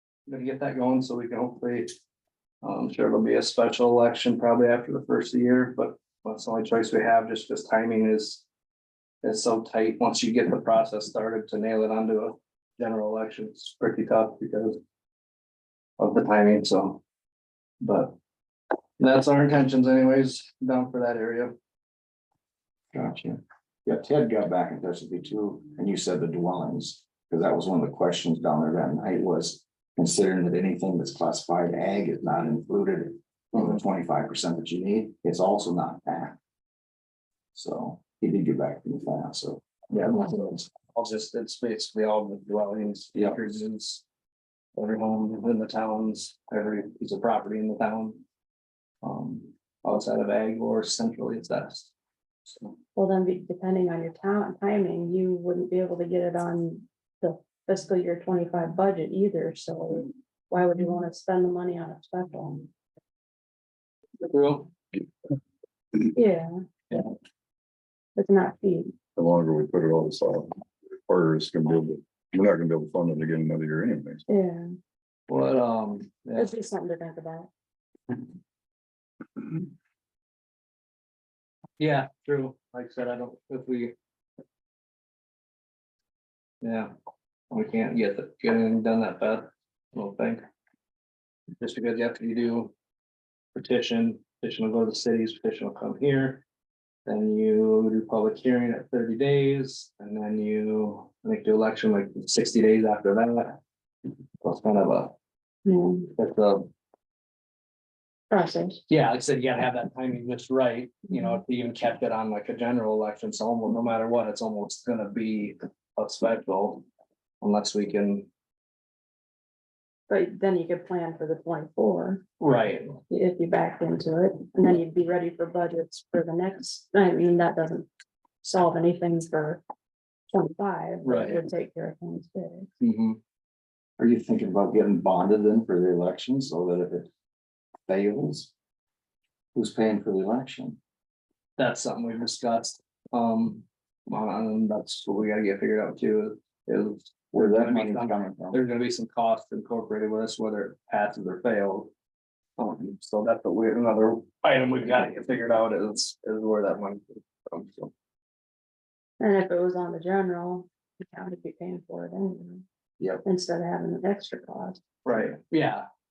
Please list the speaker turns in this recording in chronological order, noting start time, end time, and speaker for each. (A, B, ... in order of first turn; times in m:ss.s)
0:00.3-0:01.9 A
0:02.6-0:08.4 A
0:09.2-0:14.8 A
0:16.0-0:17.0 A
0:17.8-0:18.1 A
0:19.0-0:21.6 A
0:22.9-0:36.4 B
0:37.5-0:40.5 B
0:39.9-0:44.0 A
0:44.7-0:48.2 A
0:49.0-0:51.9 A
0:53.0-1:02.7 C
1:04.2-1:04.7 A
1:06.1-1:06.5 C
1:08.2-1:08.9 C
1:09.2-1:14.2 D
1:14.3-1:14.7 C
1:15.3-1:16.5 A
1:16.4-1:17.5 C
1:21.8-1:23.9 A
1:26.6-1:26.9 A
1:27.5-1:30.4 A
1:31.6-1:32.7 A
1:33.5-1:36.4 A
1:37.0-1:43.6 A
1:44.4-1:45.1 A
1:45.6-1:46.1 C
1:46.2-1:46.7 A
1:48.3-1:48.8 C
1:48.9-1:56.8 A
1:57.4-1:58.3 A
2:00.1-2:02.2 C
2:02.4-2:03.0 A
2:03.1-2:07.9 C
2:08.4-2:09.6 C
2:10.3-2:12.7 C
2:11.0-2:11.4 A
2:12.8-2:13.2 A
2:14.0-2:17.1 B
2:17.9-2:18.5 B
2:19.5-2:20.8 B
2:21.6-2:31.9 A
2:27.3-2:28.6 B
2:32.6-2:37.9 A
2:39.2-2:42.6 C
2:43.0-2:43.2 B
2:43.2-2:44.8 C
2:45.0-2:45.8 A